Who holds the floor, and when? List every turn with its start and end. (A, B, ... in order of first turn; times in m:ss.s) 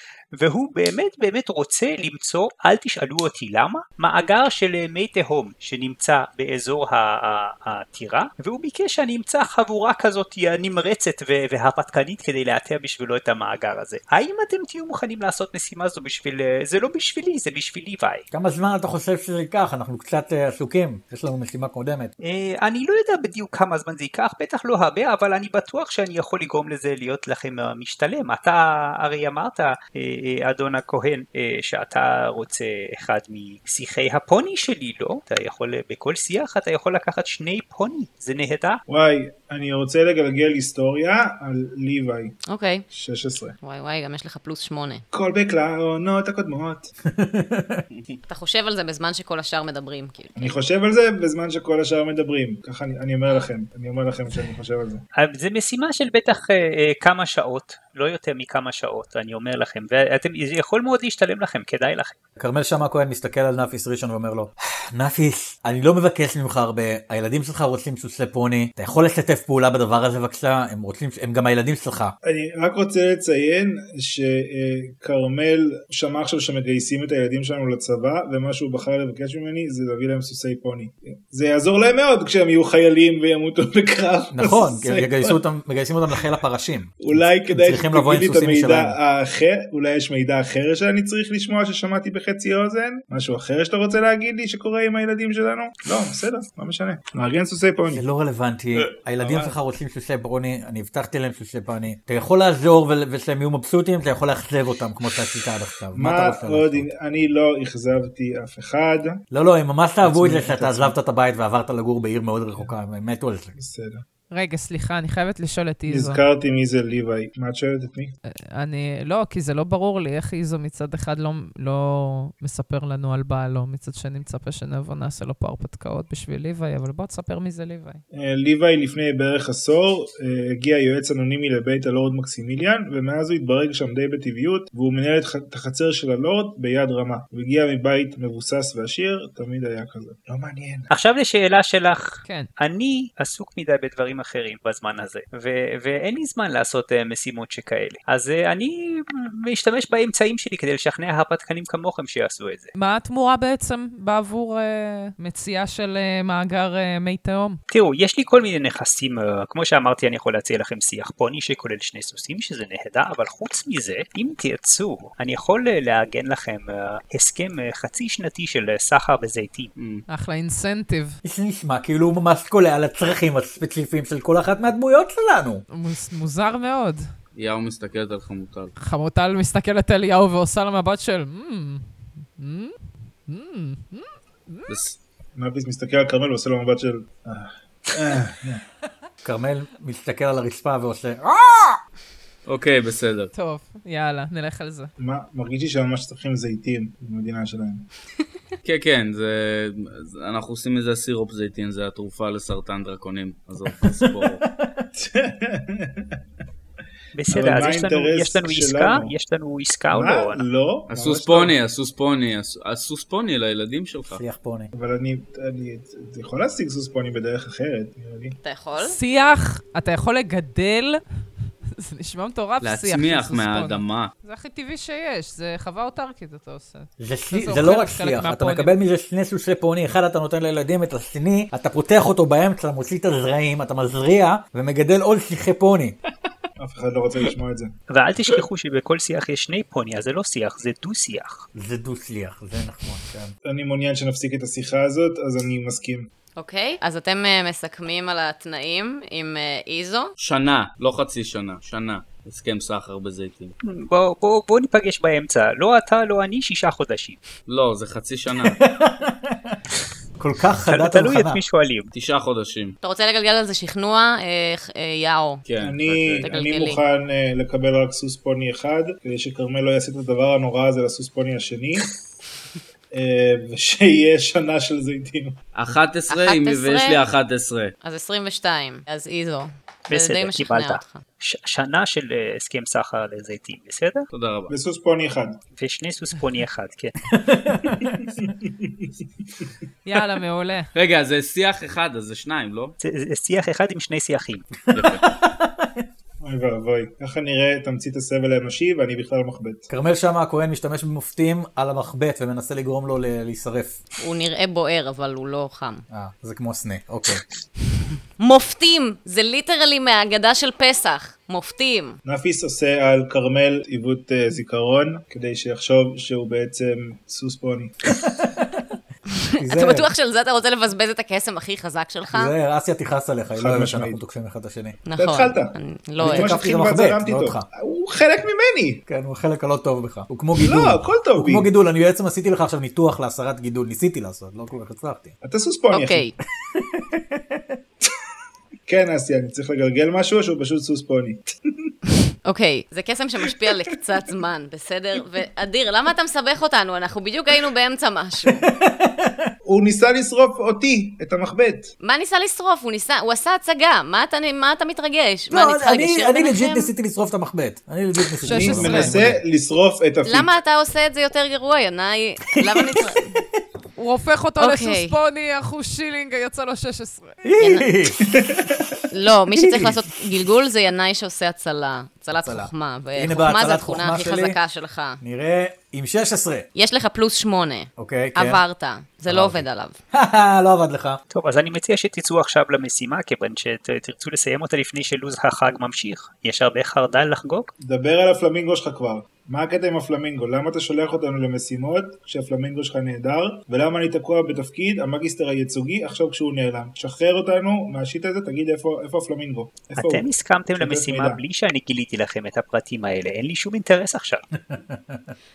0:00.4-0:18.2 A
0:18.3-0:22.1 B
0:22.2-0:38.8 A
0:38.9-0:42.4 C
0:42.4-0:42.9 D
0:42.9-0:43.6 C
0:43.6-0:45.0 D
0:45.1-0:46.9 C
0:47.1-0:47.8 B
0:47.9-0:48.2 E
0:48.3-0:50.6 D
0:50.4-0:55.0 C
0:55.2-1:02.2 A
1:02.4-1:12.2 B
1:12.2-1:25.4 C
1:24.3-1:29.0 B
1:27.0-1:38.0 C
1:37.9-1:46.9 B
1:39.2-1:39.5 E
1:45.9-1:49.2 C
1:49.3-1:53.5 B
1:50.0-1:51.0 C
1:53.6-1:54.0 C
1:54.3-1:56.2 F
1:55.9-1:58.2 C
1:58.2-2:08.0 F
2:08.1-2:20.9 C
2:20.9-2:32.7 A
2:22.2-2:22.5 F
2:32.8-2:37.6 F
2:37.7-2:49.7 A
2:49.8-2:50.0 E
2:50.1-2:51.2 F
2:51.2-2:55.6 B
2:55.7-2:57.1 F
2:57.3-2:58.7 E
2:58.8-3:04.8 F
3:04.7-3:05.0 E
3:05.4-3:08.6 C
3:09.2-3:11.8 B
3:12.5-3:13.3 E
3:13.3-3:14.9 F
3:15.0-3:17.8 C
3:18.6-3:24.4 E
3:23.7-3:24.9 B
3:25.0-3:26.2 C
3:27.1-3:30.4 A
3:27.3-3:29.1 C
3:29.9-3:31.6 C
3:30.9-3:34.2 E
3:34.1-3:34.7 B
3:34.7-3:38.4 C
3:38.4-3:39.0 D
3:38.8-3:41.0 F
3:41.7-3:48.7 F
3:42.6-3:44.1 E
3:47.0-3:56.0 B
3:56.6-3:57.7 C
3:57.9-4:01.5 A
4:01.6-4:03.3 B
4:03.5-4:06.1 C
4:06.4-4:10.1 D
4:10.2-4:13.5 E
4:13.6-4:17.2 A
4:17.5-4:18.6 E
4:18.3-4:19.6 B
4:20.2-4:21.4 B
4:20.7-4:21.9 A
4:21.9-4:22.8 E
4:22.8-4:25.4 D
4:25.5-4:26.3 E
4:25.6-4:31.9 C
4:26.2-4:26.8 D
4:32.9-4:35.4 C
4:35.6-4:37.7 E
4:36.1-4:37.1 D
4:37.8-4:41.0 D
4:39.9-4:44.1 A
4:44.1-4:44.5 E
4:44.5-4:45.4 C
4:45.6-4:47.0 A
4:47.1-4:48.0 B
4:47.9-4:49.5 C
4:49.8-4:50.7 F
4:50.7-4:52.7 E
4:52.8-4:54.5 A
4:54.7-4:55.9 B
4:54.7-4:55.1 E
4:56.2-4:59.7 C
4:59.7-5:03.8 B
5:04.0-5:05.8 D
5:05.9-5:07.2 B
5:08.2-5:12.0 D
5:12.0-5:17.8 C
5:18.0-5:18.8 B
5:19.1-5:22.3 D
5:19.4-5:19.9 B
5:22.1-5:24.8 B
5:23.4-5:24.0 C
5:24.9-5:26.4 D
5:25.0-5:28.8 C
5:26.0-5:27.5 B
5:28.9-5:35.1 B
5:30.4-5:31.5 C
5:35.2-5:36.1 C
5:35.7-5:36.1 D
5:36.5-5:37.5 B
5:38.7-5:41.7 C
5:42.2-5:48.4 D
5:48.4-5:49.3 B
5:49.5-5:51.7 C
5:51.8-5:56.7 D
5:55.3-5:59.2 B
5:58.2-5:59.0 F
5:58.3-6:00.3 C
6:00.1-6:03.2 D
6:02.4-6:02.8 B
6:03.8-6:07.2 F
6:04.4-6:05.0 D
6:07.2-6:08.6 B
6:07.4-6:07.7 D
6:08.1-6:08.5 C
6:08.9-6:15.0 D
6:09.3-6:09.8 B
6:12.1-6:14.4 B
6:15.0-6:16.5 B
6:16.6-6:19.8 D
6:17.8-6:18.4 B
6:19.1-6:21.0 B
6:21.1-6:27.5 A
6:27.6-6:41.2 C
6:39.8-6:44.2 A
6:44.5-6:45.1 B